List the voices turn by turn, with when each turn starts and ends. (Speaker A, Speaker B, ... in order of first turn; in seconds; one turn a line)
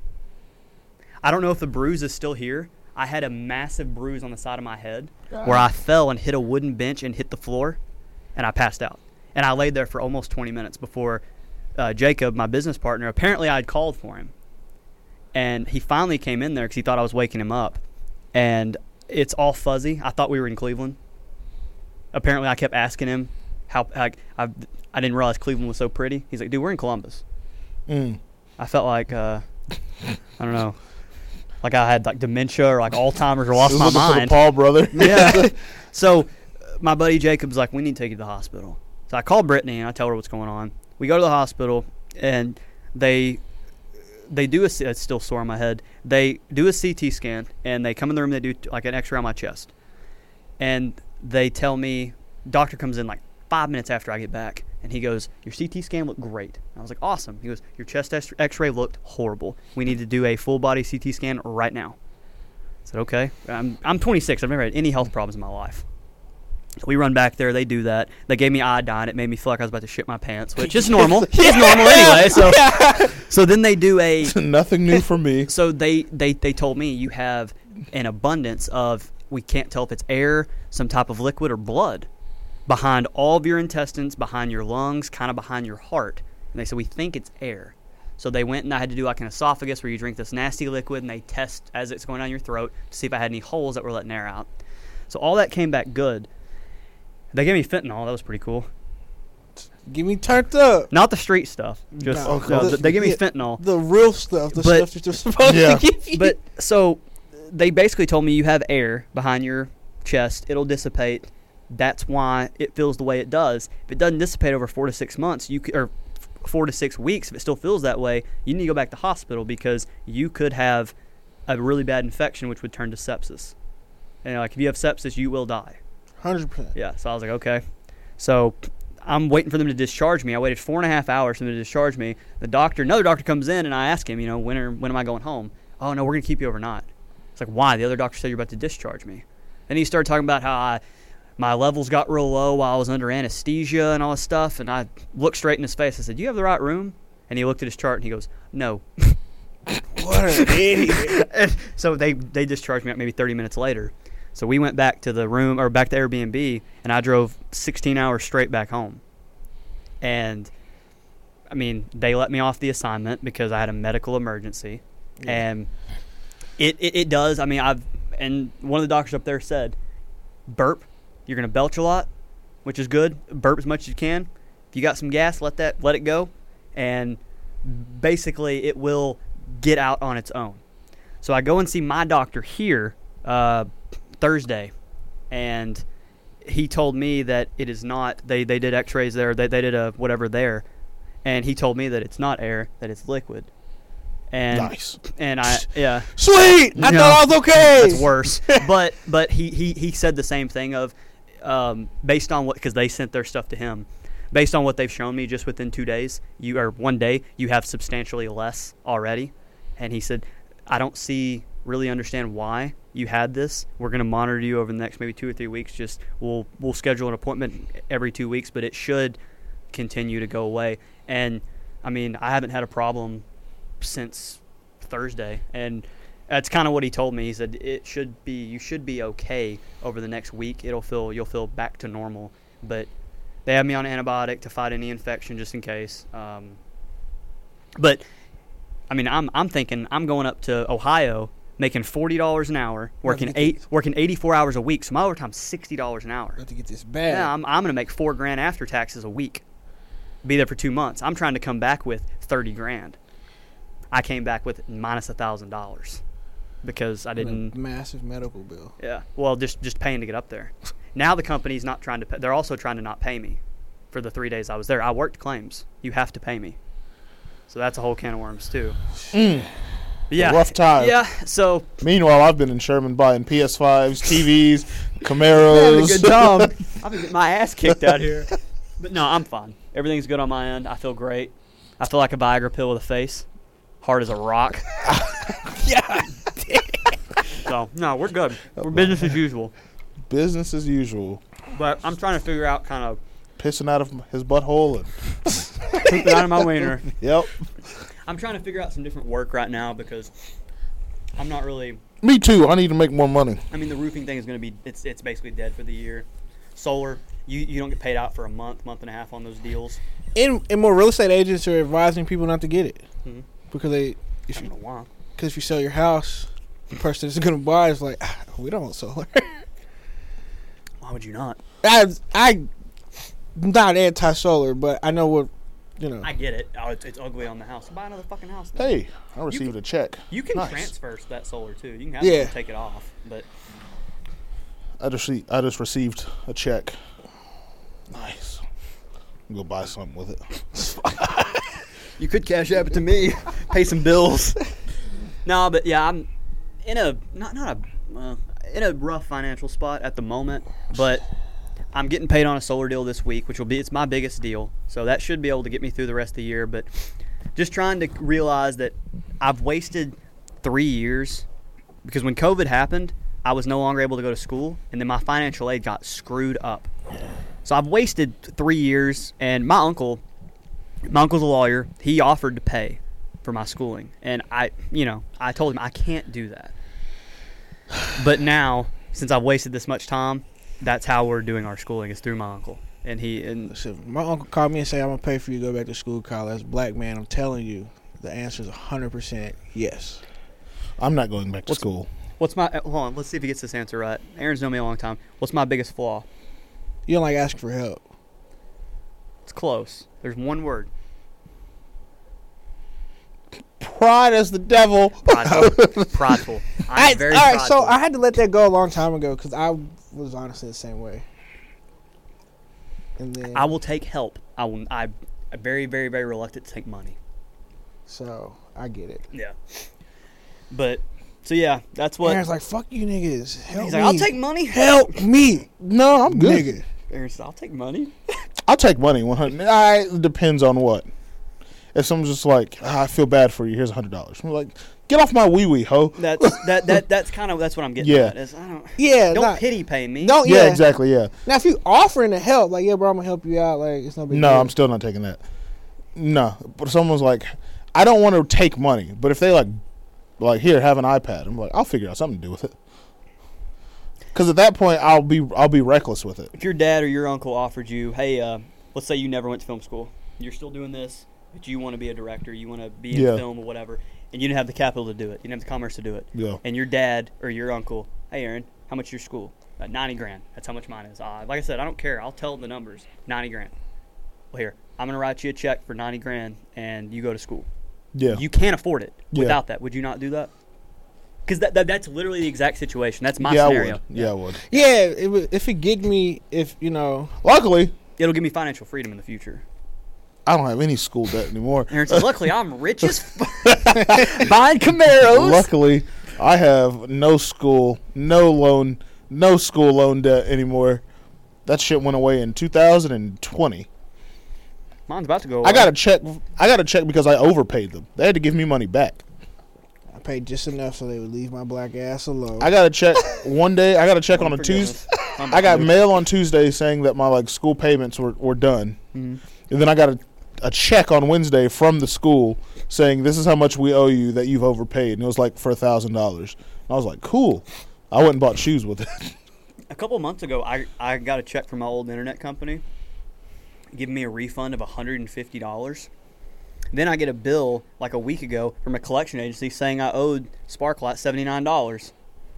Speaker A: 1.2-7.8
Speaker A: 8.3-11.2
Speaker A: 11.8-14.3
Speaker A: 15.3-17.8
Speaker A: 18.3-21.0
Speaker A: 22.1-27.2
Speaker B: 27.9-28.2
Speaker A: 28.6-29.4
Speaker A: 30.4-30.8
Speaker A: 31.6-34.4
Speaker B: 33.6-35.5
Speaker A: 34.9-43.4
Speaker A: 44.3-49.7
Speaker A: 50.6-62.0
Speaker A: 62.8-65.8
Speaker A: 66.8-74.3
Speaker C: 71.0-73.1
Speaker B: 74.2-75.5
Speaker A: 75.5-82.1
Speaker A: 82.7-94.5
Speaker A: 95.1-96.3
Speaker A: 97.3-98.7
Speaker C: 99.8-100.9
Speaker A: 100.9-103.6
Speaker C: 102.0-106.3
Speaker B: 102.2-102.9
Speaker A: 104.5-104.9
Speaker B: 105.4-105.8
Speaker A: 106.1-120.9
Speaker A: 121.5-123.5
Speaker A: 124.2-125.8
Speaker C: 126.2-126.7
Speaker A: 126.7-127.6
Speaker A: 128.2-140.8
Speaker A: 141.4-149.2
Speaker C: 149.9-151.2
Speaker A: 150.1-159.0
Speaker A: 160.0-160.5
Speaker A: 161.5-165.7
Speaker C: 165.2-165.4
Speaker A: 166.6-169.8
Speaker A: 170.5-172.1
Speaker A: 172.6-180.6
Speaker A: 181.2-183.7
Speaker A: 184.2-184.7
Speaker A: 185.3-185.8
Speaker A: 186.4-190.6
Speaker A: 191.2-193.5
Speaker A: 194.3-196.1
Speaker B: 194.5-195.0
Speaker C: 196.2-198.6
Speaker A: 196.7-219.2
Speaker A: 219.7-223.2
Speaker A: 223.8-232.9
Speaker A: 233.4-236.6
Speaker A: 238.9-246.4
Speaker C: 243.0-243.6
Speaker C: 246.4-247.3
Speaker A: 247.1-249.4
Speaker A: 250.2-253.0
Speaker A: 253.9-256.0
Speaker A: 256.6-257.5
Speaker C: 257.2-258.7
Speaker A: 258.8-263.4
Speaker A: 263.9-266.6
Speaker A: 267.5-268.8
Speaker B: 269.1-269.5
Speaker A: 270.1-271.7
Speaker B: 270.1-271.0
Speaker B: 271.8-276.5
Speaker A: 275.3-283.2
Speaker A: 283.8-284.7
Speaker B: 284.9-285.1
Speaker C: 285.5-286.9
Speaker A: 287.4-289.5
Speaker B: 288.6-289.1
Speaker B: 290.1-291.2
Speaker A: 291.5-293.0
Speaker B: 293.4-296.2
Speaker A: 295.8-296.9
Speaker B: 296.9-297.3
Speaker A: 298.1-300.1
Speaker A: 301.2-301.8
Speaker B: 302.0-303.4
Speaker A: 303.5-309.8
Speaker C: 310.1-312.8
Speaker C: 313.5-314.5
Speaker A: 314.3-314.9
Speaker C: 315.2-319.4
Speaker A: 320.8-321.4
Speaker C: 321.6-322.5
Speaker C: 323.3-326.1
Speaker A: 326.0-328.7
Speaker B: 328.6-330.7
Speaker A: 330.1-333.2
Speaker C: 332.0-332.3
Speaker B: 334.8-336.7
Speaker B: 337.9-338.4
Speaker B: 339.3-340.4
Speaker C: 340.6-341.3
Speaker A: 342.0-344.4
Speaker A: 345.2-346.1
Speaker A: 346.6-351.0
Speaker A: 351.7-361.2
Speaker A: 361.8-366.7
Speaker A: 367.4-370.0
Speaker A: 370.9-376.5
Speaker A: 377.9-383.5
Speaker C: 383.5-390.0
Speaker B: 390.8-391.9
Speaker A: 392.2-396.1
Speaker C: 396.9-397.8
Speaker A: 399.2-400.7
Speaker B: 403.6-405.9
Speaker A: 405.0-407.8
Speaker C: 406.7-411.0
Speaker C: 413.0-413.4
Speaker A: 413.3-417.0
Speaker C: 417.9-419.1
Speaker A: 419.1-419.6
Speaker A: 420.5-422.2
Speaker C: 422.0-425.5
Speaker A: 423.5-425.0
Speaker B: 425.6-426.5
Speaker C: 426.1-426.6
Speaker A: 426.9-427.9
Speaker B: 428.4-430.9
Speaker B: 431.7-436.8
Speaker A: 436.0-440.2
Speaker B: 437.8-438.1
Speaker C: 438.8-439.4
Speaker C: 440.0-440.6
Speaker B: 440.2-441.1
Speaker C: 441.2-444.5
Speaker B: 444.1-445.2
Speaker B: 445.9-449.6
Speaker B: 450.2-452.6
Speaker B: 454.1-456.3
Speaker A: 456.3-473.5
Speaker B: 462.9-463.2
Speaker B: 466.1-466.4
Speaker A: 474.3-477.5
Speaker B: 477.9-478.2
Speaker A: 478.1-480.3
Speaker B: 479.1-479.4
Speaker A: 481.2-484.1
Speaker B: 483.2-484.4
Speaker C: 484.5-487.1
Speaker B: 487.2-487.7
Speaker A: 488.0-489.4
Speaker B: 490.2-492.3
Speaker A: 491.7-495.5
Speaker B: 493.4-500.8
Speaker B: 501.4-503.7
Speaker A: 504.9-505.7
Speaker B: 505.4-509.0
Speaker C: 509.9-512.5
Speaker B: 512.4-518.8
Speaker A: 514.1-515.8
Speaker A: 518.9-519.2
Speaker B: 519.5-529.1
Speaker A: 529.7-532.6
Speaker A: 533.7-535.9
Speaker A: 536.7-541.9